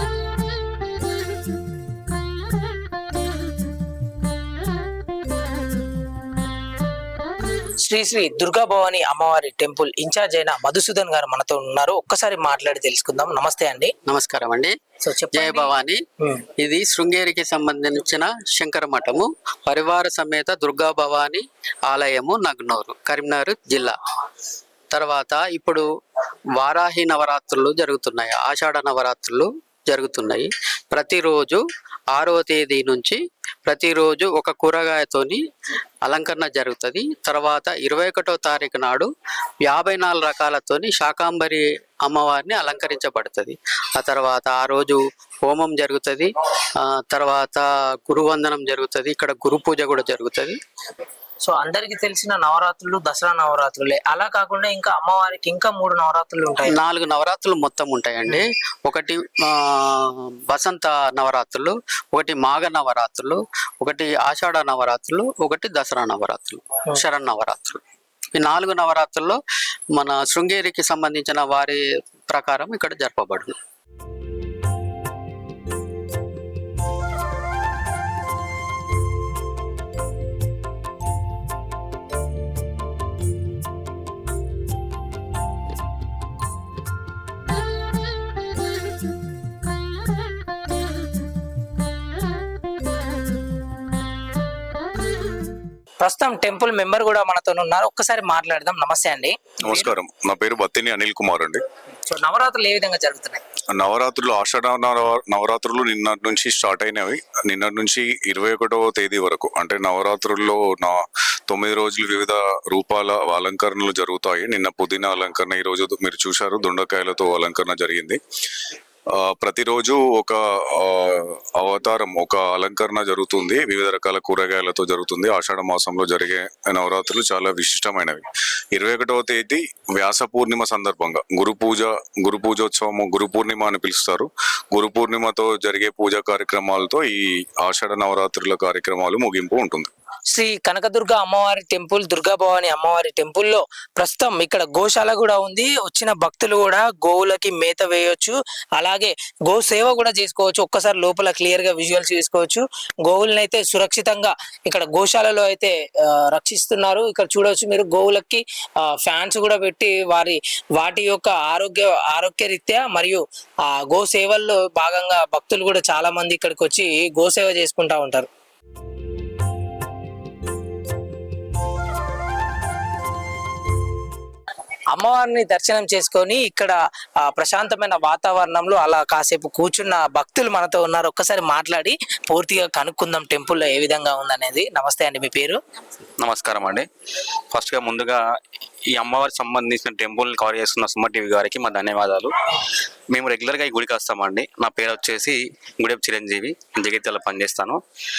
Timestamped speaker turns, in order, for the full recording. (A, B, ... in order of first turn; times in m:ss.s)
0:07.8-0:13.9 A
0:14.1-0:14.8 B
0:15.0-0:16.5 A
0:15.3-0:16.0 B
0:16.6-0:24.0 B
0:24.9-0:25.8 B
0:26.6-0:35.4 B
0:36.0-0:39.1 B
0:39.6-0:50.6 B
0:51.4-0:56.8 A
0:56.7-1:07.8 B
1:08.4-1:09.4 B
1:10.0-1:13.6 B
1:36.0-1:39.9 A
1:39.7-1:41.6 C
1:42.1-1:43.4 A
1:43.7-1:58.2 C
1:59.1-2:19.9 C
2:20.3-2:48.3 A
2:54.9-3:05.6 A
3:06.2-3:06.9 D
3:07.5-3:08.2 D
3:09.0-3:12.3 D
3:13.1-3:17.8 D